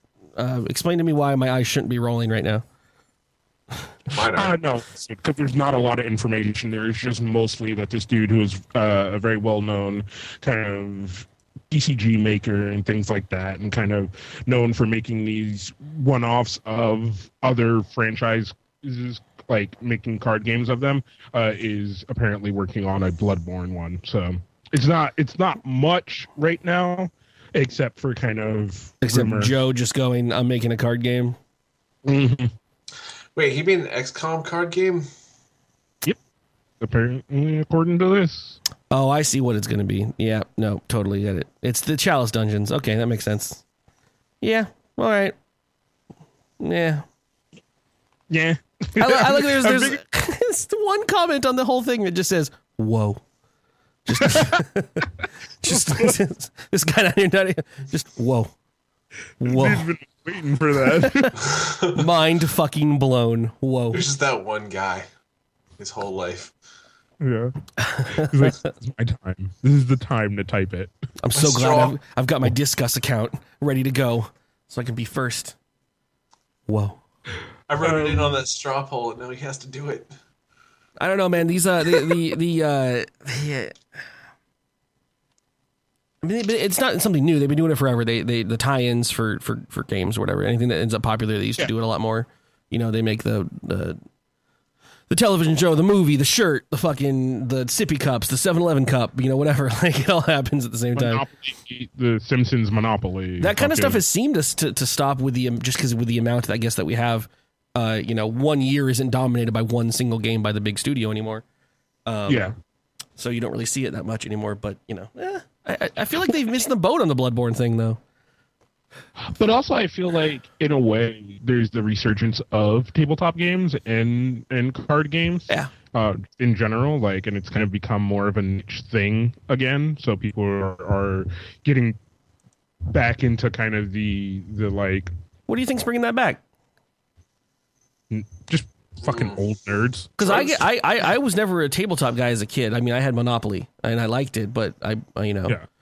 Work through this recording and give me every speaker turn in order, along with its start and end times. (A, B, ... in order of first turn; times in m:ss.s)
0:00.4-0:02.6 A
0:04.1-0:04.6 B
0:04.3-0:29.5 C
0:29.0-0:31.4 A
0:32.0-0:32.5 C
0:33.4-0:35.1 B
0:36.8-0:38.6 C
0:38.9-0:43.6 A
0:44.4-0:45.4 A
0:46.6-0:47.0 A
0:48.3-0:50.0 C
0:49.0-0:53.2 A
0:54.1-0:55.1 A
0:54.2-0:54.6 C
0:55.6-0:58.5 A
0:55.7-0:56.1 C
0:59.4-0:59.9 A
0:59.4-1:01.6 C
1:01.0-1:01.3 A
1:01.5-1:02.1 B
1:01.9-1:04.0 A
1:03.9-1:05.1 B
1:05.8-1:06.5 B
1:07.2-1:07.6 C
1:07.8-1:08.7 A
1:08.1-1:10.9 C
1:11.2-1:15.6 A
1:11.4-1:12.0 B
1:16.7-1:17.0 A
1:17.7-1:20.1 B
1:17.8-1:18.4 C
1:21.0-1:23.8 A
1:26.2-1:34.0 A
1:35.1-1:41.2 A
1:40.9-1:44.0 C
1:43.4-1:51.4 A
1:52.1-1:52.5 A
1:52.3-1:52.5 C
1:53.2-1:58.0 A
1:59.2-2:12.0 C
2:12.9-2:15.1 C
2:15.5-2:16.4 A
2:18.1-2:20.6 C
2:19.0-2:19.4 B
2:20.2-2:25.6 A